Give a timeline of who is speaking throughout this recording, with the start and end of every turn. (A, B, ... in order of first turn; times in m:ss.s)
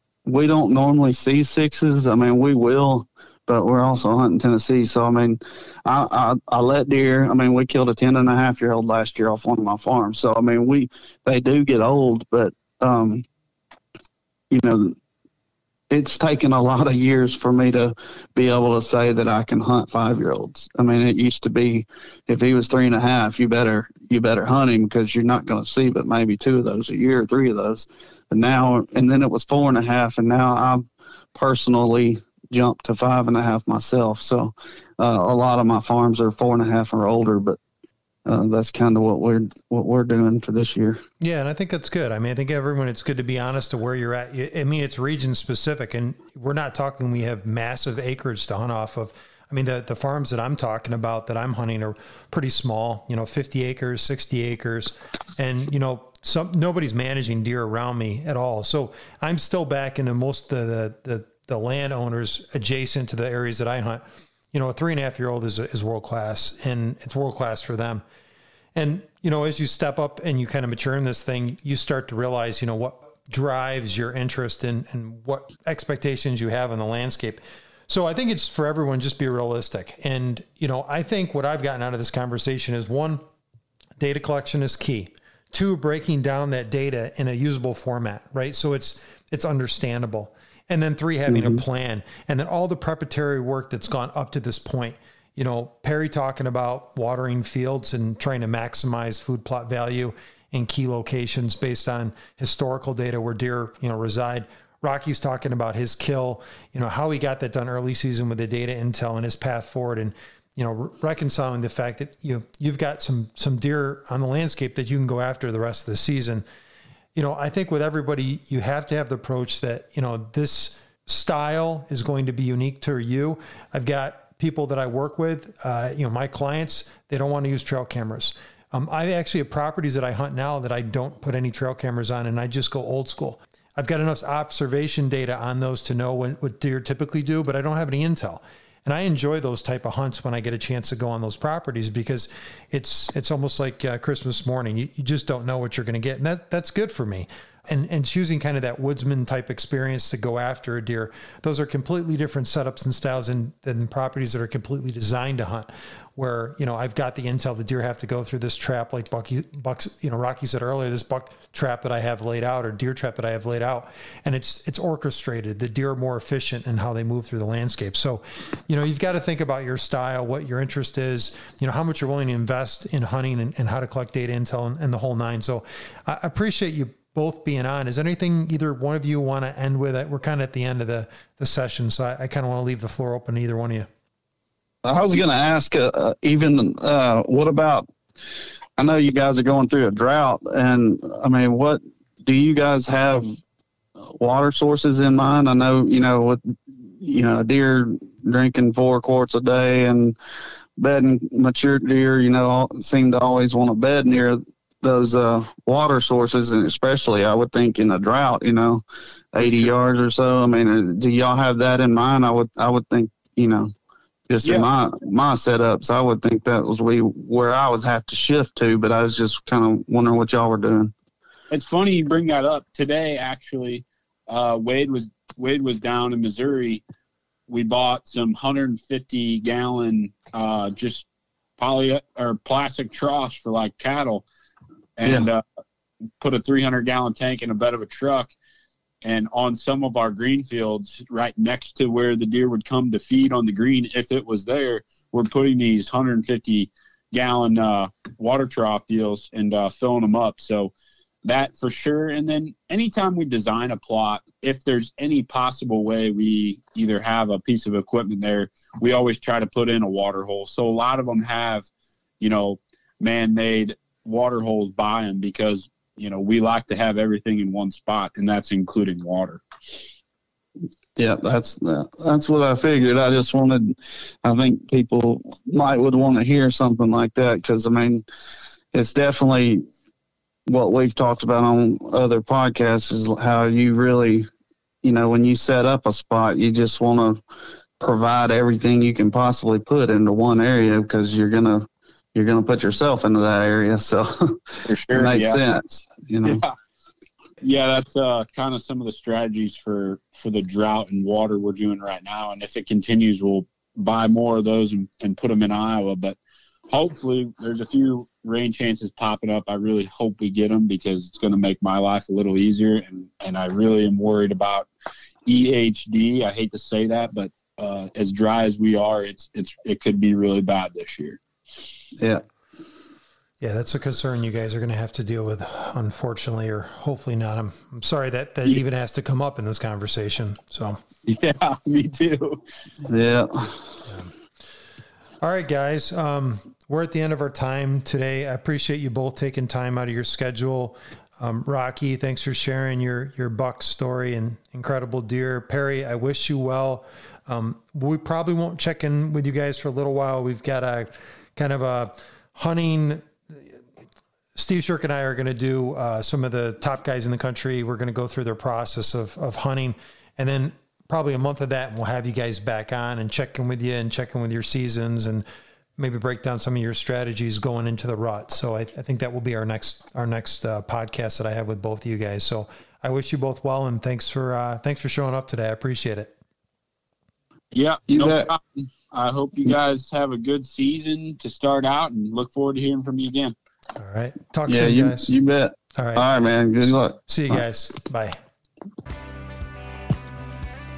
0:00.3-0:13.2 A
0:14.5-0:15.0 A
0:15.9-0:37.6 A
0:38.3-0:41.0 A
0:41.2-1:04.0 B
1:04.5-1:08.0 B
1:08.8-1:23.2 B
1:24.0-1:56.4 B
1:31.3-1:31.6 A
1:57.2-3:03.9 B
3:04.8-3:07.9 A
3:08.8-3:13.3 A
3:14.0-3:20.2 A
3:20.8-3:33.7 A
3:29.4-3:29.7 C
3:34.3-3:40.9 A
3:34.4-3:34.7 C
3:41.5-3:46.8 C
3:47.5-3:51.1 C
3:51.6-3:54.3 C
3:55.0-3:55.4 C
3:56.2-3:58.3 C
3:59.0-4:10.7 C
4:11.2-4:21.7 C
4:22.2-4:29.4 C
4:31.0-4:38.0 A
4:38.7-4:39.6 A
4:40.5-4:44.3 A
4:44.8-4:47.2 A
4:47.8-4:56.4 A
4:54.6-4:55.4 C
4:56.2-4:56.5 C
4:57.4-5:06.2 C
5:06.7-5:14.7 C
5:15.3-5:21.2 C
5:23.4-5:30.8 B
5:31.0-5:32.4 C
5:32.9-5:33.8 A
5:35.2-5:53.4 B
5:54.4-6:05.2 B
6:05.8-6:16.1 B
6:17.5-6:23.4 C
6:17.9-6:18.3 A
6:23.8-6:25.1 B
6:24.5-6:27.0 A
6:25.8-6:26.0 B
6:26.6-6:28.2 B